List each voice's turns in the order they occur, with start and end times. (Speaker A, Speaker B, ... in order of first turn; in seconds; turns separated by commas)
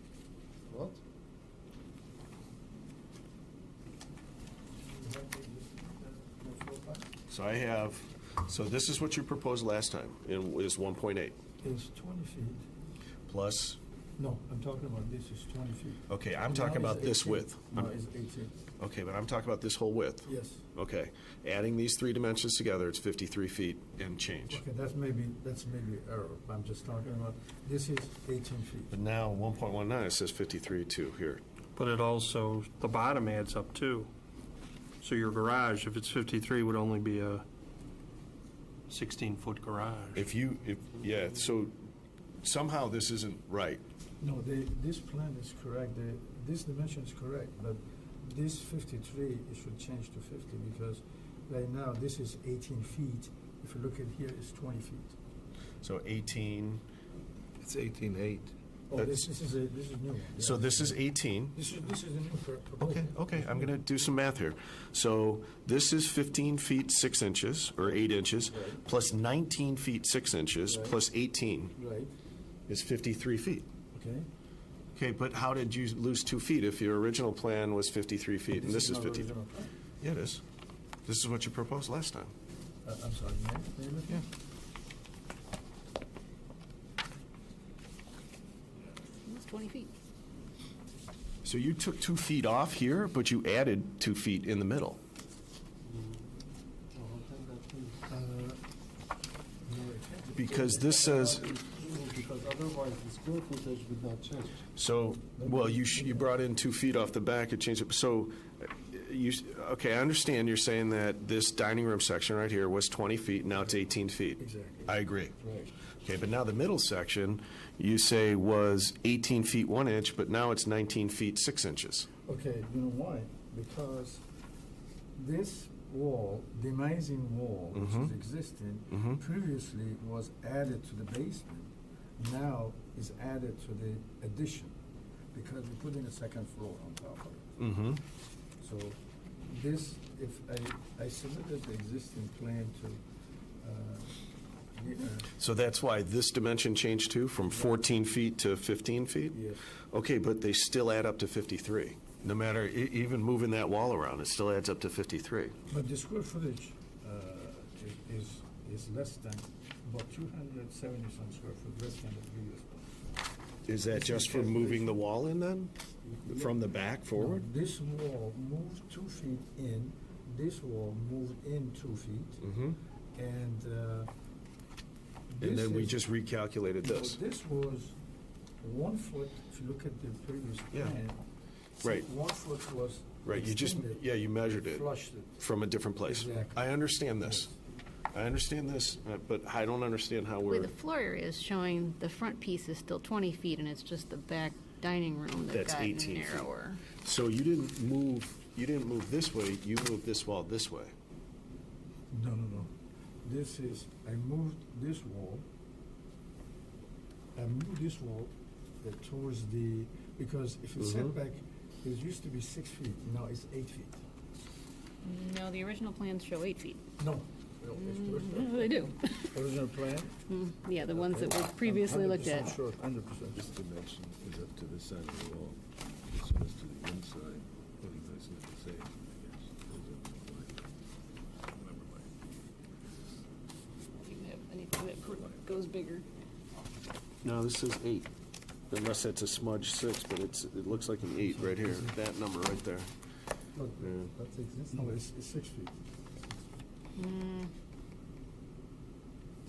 Speaker A: 0.7-1.0, Speaker B: 4.8-7.1, Speaker C: 7.3-11.4, Speaker B: 11.6-12.6, Speaker C: 13.3-13.8, Speaker B: 14.2-18.6, Speaker C: 16.1-17.9, Speaker C: 18.8-24.6, Speaker B: 20.2-20.6, Speaker B: 24.5-28.9, Speaker C: 28.9-31.4, Speaker D: 31.8-34.1, Speaker D: 35.0-37.4, Speaker D: 38.9-40.2, Speaker C: 40.1-41.7, Speaker C: 42.4-43.8, Speaker B: 44.2-55.1, Speaker C: 55.8-56.8, Speaker E: 57.6-58.5, Speaker B: 58.9-63.7, Speaker C: 58.9-59.3, Speaker C: 60.4-61.6, Speaker C: 62.8-71.7, Speaker B: 68.5-68.8, Speaker B: 70.7-71.0, Speaker B: 71.7-72.1, Speaker C: 72.7-73.7, Speaker B: 73.9-74.3, Speaker C: 75.0-79.3, Speaker B: 78.5-79.7, Speaker C: 80.0-80.4, Speaker C: 81.0-82.3, Speaker B: 82.8-84.2, Speaker F: 89.2-89.9, Speaker C: 91.4-95.0, Speaker A: 95.8-96.3, Speaker A: 96.9-98.0, Speaker B: 98.1-98.6, Speaker B: 99.6-101.4, Speaker C: 100.3-101.5, Speaker A: 101.0-104.7, Speaker C: 104.7-115.3, Speaker B: 105.4-106.3, Speaker B: 114.4-115.7, Speaker C: 116.0-122.1, Speaker B: 122.2-124.2, Speaker B: 125.2-134.8, Speaker C: 127.7-128.1, Speaker C: 128.9-129.2, Speaker B: 135.3-137.6, Speaker C: 137.6-138.0, Speaker B: 138.6-143.0, Speaker B: 143.6-144.2, Speaker B: 144.7-145.3, Speaker C: 145.4-149.4, Speaker B: 149.3-149.6, Speaker C: 149.9-155.5, Speaker B: 155.7-162.9, Speaker C: 163.7-165.7, Speaker B: 163.9-165.0, Speaker B: 166.1-172.4, Speaker C: 166.2-167.4, Speaker C: 172.4-172.8, Speaker B: 173.1-174.1, Speaker B: 175.3-176.0, Speaker C: 175.4-177.2, Speaker B: 176.8-177.9, Speaker B: 178.6-181.2, Speaker B: 181.8-185.4, Speaker C: 183.2-187.5, Speaker B: 186.1-186.6, Speaker B: 187.2-187.5, Speaker C: 188.1-190.7, Speaker F: 190.5-196.9, Speaker C: 195.5-200.9, Speaker B: 202.1-202.7, Speaker B: 203.2-205.4, Speaker B: 207.3-214.0, Speaker C: 210.8-211.2, Speaker F: 215.0-216.8, Speaker B: 217.0-220.2, Speaker F: 217.8-219.3, Speaker F: 220.3-222.5, Speaker B: 220.8-223.5, Speaker E: 223.3-225.6, Speaker E: 226.1-230.7, Speaker E: 231.5-232.0, Speaker F: 234.0-236.0, Speaker E: 235.1-235.5, Speaker C: 237.2-238.1, Speaker C: 238.7-242.9, Speaker B: 241.2-241.9, Speaker B: 243.6-245.7, Speaker C: 243.8-244.1, Speaker F: 247.0-247.5